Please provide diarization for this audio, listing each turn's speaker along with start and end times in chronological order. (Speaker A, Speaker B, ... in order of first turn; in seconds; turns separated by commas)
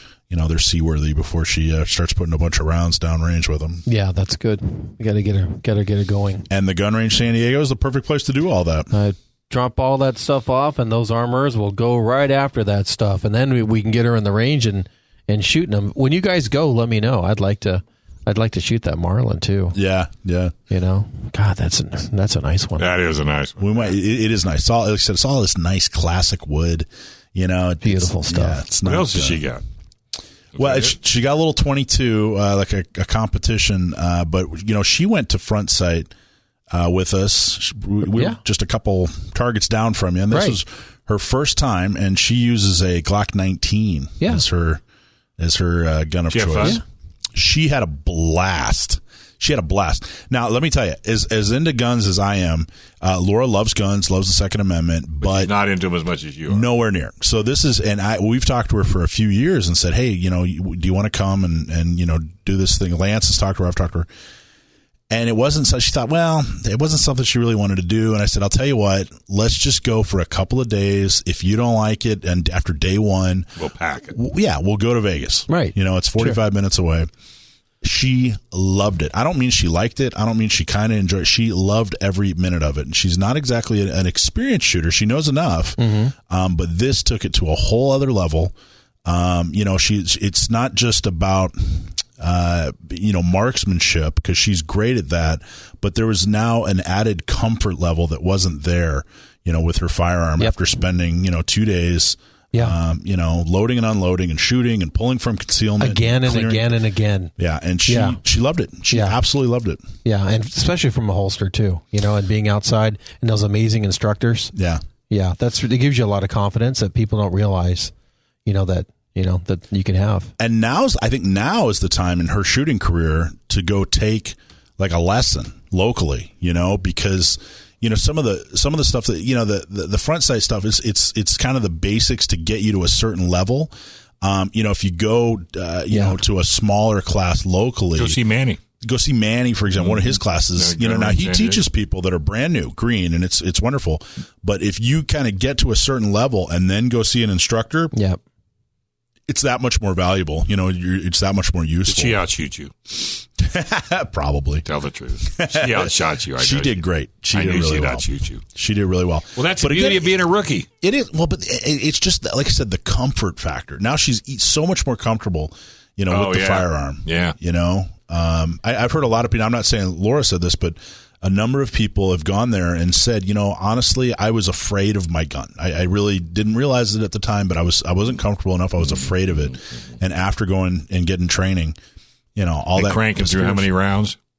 Speaker A: 0.3-3.8, Speaker B: 3.9-6.5, Speaker A: 6.5-8.9, Speaker B: 8.9-19.8, Speaker A: 19.7-20.5, Speaker B: 20.7-22.9, Speaker C: 22.8-23.9, Speaker A: 23.6-29.4, Speaker B: 27.8-28.6, Speaker C: 28.8-29.6, Speaker C: 30.5-30.9, Speaker A: 30.6-36.1, Speaker A: 36.7-44.8, Speaker B: 38.1-38.4, Speaker B: 40.3-40.6, Speaker A: 45.4-46.8, Speaker C: 46.3-46.8, Speaker A: 47.3-55.5, Speaker C: 55.2-56.7, Speaker A: 56.5-64.1, Speaker A: 65.1-73.5, Speaker C: 73.6-74.2, Speaker A: 74.1-77.1, Speaker B: 75.5-76.4, Speaker A: 77.8-88.5, Speaker B: 85.8-86.1, Speaker A: 89.0-106.8, Speaker B: 105.8-107.3, Speaker A: 107.4-109.8, Speaker B: 107.8-108.2, Speaker B: 108.9-109.2, Speaker B: 110.0-114.5, Speaker A: 114.5-114.8, Speaker B: 115.1-117.9, Speaker B: 118.4-120.3, Speaker A: 120.4-133.7, Speaker A: 134.2-138.2, Speaker B: 135.9-136.2, Speaker C: 137.9-138.6, Speaker A: 138.8-147.9, Speaker C: 139.8-141.6, Speaker B: 147.9-148.2, Speaker A: 149.3-152.2, Speaker C: 151.8-152.7, Speaker A: 153.4-154.7, Speaker C: 154.6-158.4, Speaker A: 155.2-160.2, Speaker C: 159.3-160.7, Speaker A: 160.8-181.8, Speaker C: 166.1-167.3, Speaker A: 182.3-183.7, Speaker C: 182.8-184.2